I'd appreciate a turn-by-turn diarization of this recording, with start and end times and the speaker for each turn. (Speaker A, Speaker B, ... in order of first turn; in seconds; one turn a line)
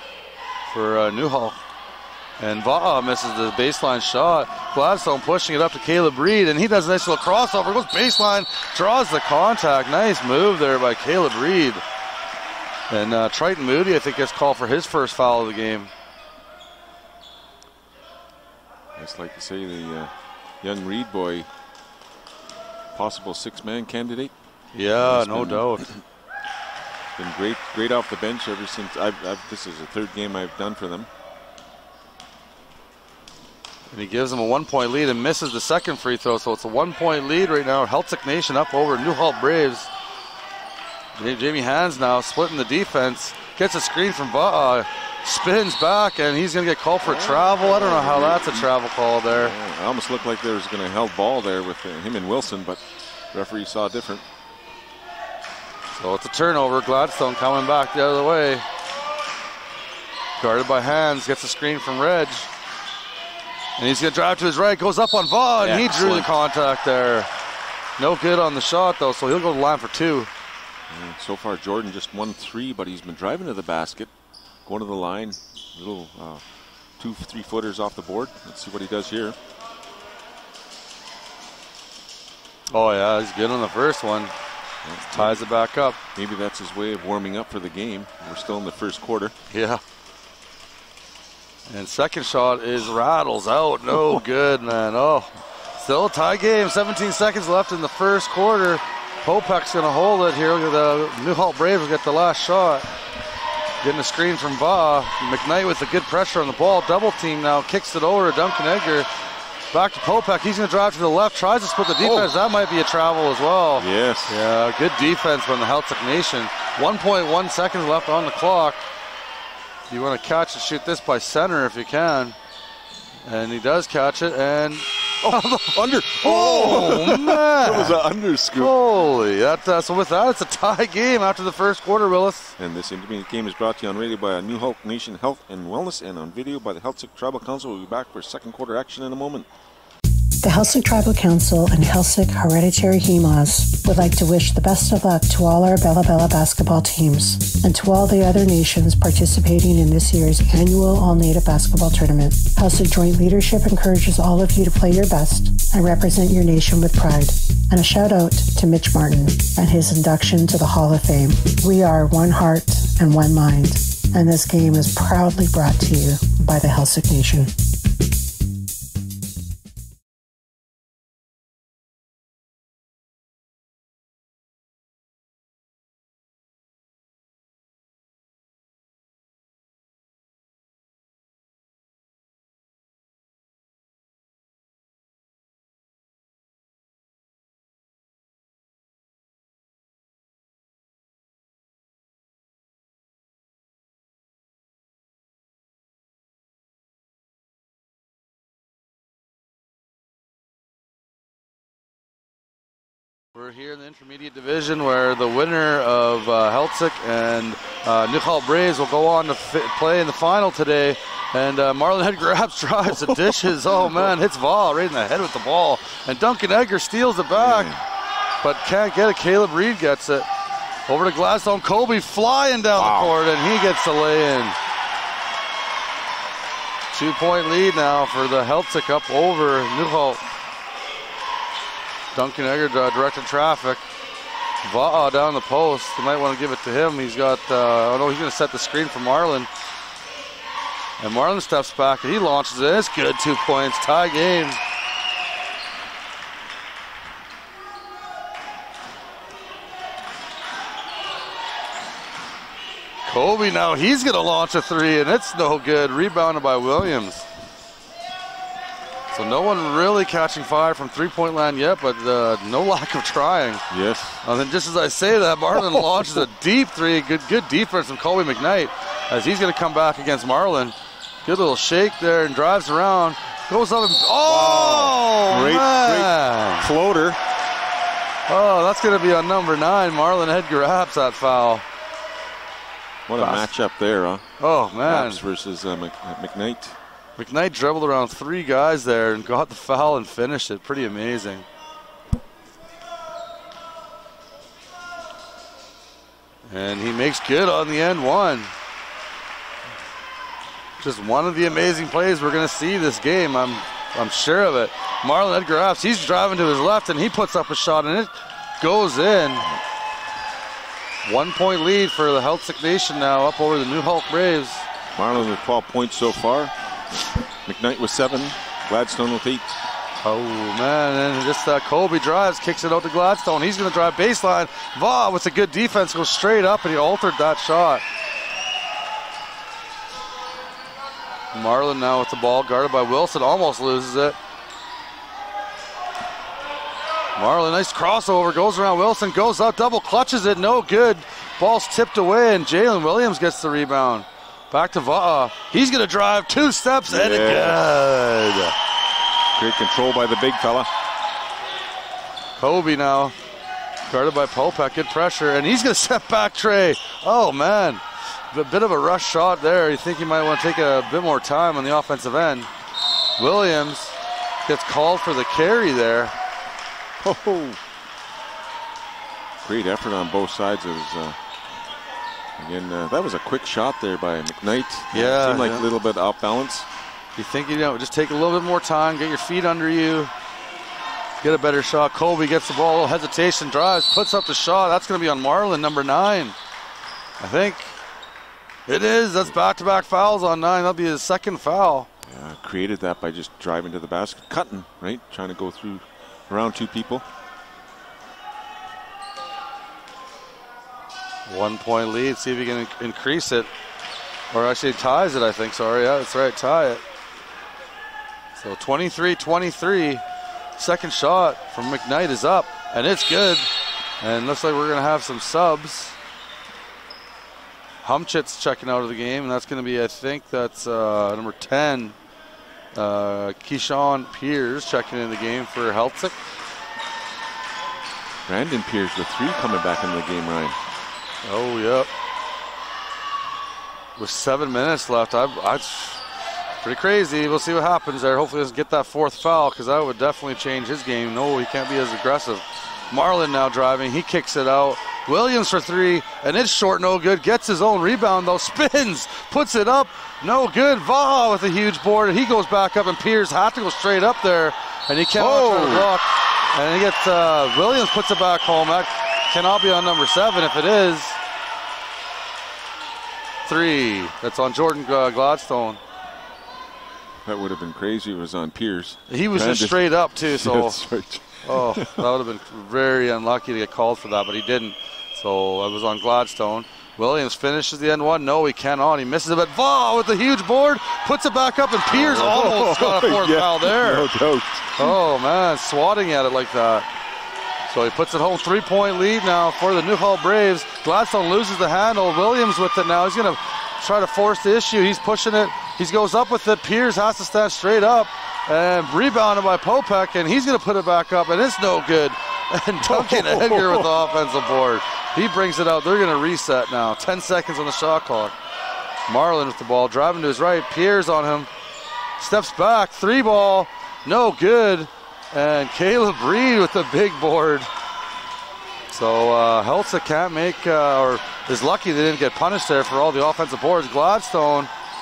Speaker A: 0.7-1.6
Speaker A: 2.4-11.8
Speaker A: 12.9-15.9
Speaker B: 19.0-20.1
Speaker B: 20.6-21.5
Speaker B: 22.9-24.3
Speaker A: 24.7-25.9
Speaker B: 25.0-26.0
Speaker B: 27.2-31.1
Speaker A: 33.9-39.9
Speaker A: 41.2-49.5
Speaker B: 47.0-48.7
Speaker B: 49.3-52.8
Speaker B: 53.3-54.2
Speaker A: 56.0-58.6
Speaker A: 60.4-62.5
Speaker A: 63.8-67.3
Speaker B: 65.6-66.3
Speaker A: 68.0-70.3
Speaker B: 70.9-74.1
Speaker B: 74.7-76.4
Speaker B: 77.0-79.4
Speaker A: 82.7-84.3
Speaker B: 84.8-85.4
Speaker A: 85.1-86.0
Speaker B: 86.2-89.3
Speaker A: 89.5-89.8
Speaker A: 91.7-102.9
Speaker A: 103.8-109.1
Speaker A: 109.7-118.8
Speaker B: 112.0-112.3
Speaker B: 113.8-114.4
Speaker A: 119.9-122.4
Speaker A: 123.3-128.0
Speaker B: 125.2-128.8
Speaker A: 128.6-132.5
Speaker B: 132.6-139.5
Speaker C: 140.4-167.5
Speaker A: 203.3-217.7
Speaker B: 213.3-214.1
Speaker B: 217.4-217.8
Speaker A: 218.4-220.3
Speaker A: 220.9-224.6
Speaker B: 222.8-223.2
Speaker A: 226.9-230.2
Speaker A: 232.1-233.8
Speaker A: 234.6-239.5
Speaker A: 241.0-244.6
Speaker A: 253.1-257.3
Speaker A: 259.1-263.6
Speaker B: 263.7-264.2
Speaker A: 264.2-276.7
Speaker B: 274.2-277.2
Speaker A: 278.3-281.6
Speaker B: 283.1-284.3
Speaker A: 283.2-283.5
Speaker A: 284.4-285.2
Speaker B: 284.8-286.8
Speaker A: 287.2-291.5
Speaker A: 296.5-298.5
Speaker A: 300.8-309.5
Speaker A: 311.1-314.6
Speaker B: 315.0-316.5
Speaker B: 317.5-319.6
Speaker A: 320.0-327.8
Speaker A: 331.3-334.2
Speaker A: 337.2-348.5
Speaker B: 346.9-347.6
Speaker B: 349.4-350.7
Speaker A: 352.4-353.1
Speaker A: 353.9-362.5
Speaker A: 363.2-363.9
Speaker A: 364.5-366.1
Speaker B: 367.0-367.6
Speaker B: 369.4-371.2
Speaker B: 372.4-376.7
Speaker A: 374.9-375.6
Speaker A: 377.2-380.1
Speaker A: 381.2-386.4
Speaker A: 387.2-387.8
Speaker A: 388.7-391.9
Speaker B: 392.1-397.1
Speaker A: 401.3-403.5
Speaker A: 404.3-406.8
Speaker A: 408.4-410.0
Speaker A: 410.6-413.5
Speaker A: 414.0-416.0
Speaker A: 417.8-422.0
Speaker A: 422.8-426.2
Speaker B: 428.3-430.6
Speaker A: 431.2-431.9
Speaker A: 434.0-436.0
Speaker A: 436.6-461.2
Speaker B: 455.1-455.9
Speaker A: 463.5-465.8
Speaker B: 467.3-472.1
Speaker A: 469.1-470.8
Speaker A: 471.4-484.1
Speaker B: 481.9-485.0
Speaker A: 484.8-486.9
Speaker A: 487.7-508.3
Speaker B: 502.9-503.9
Speaker A: 509.1-511.5
Speaker A: 512.2-517.7
Speaker A: 518.9-524.7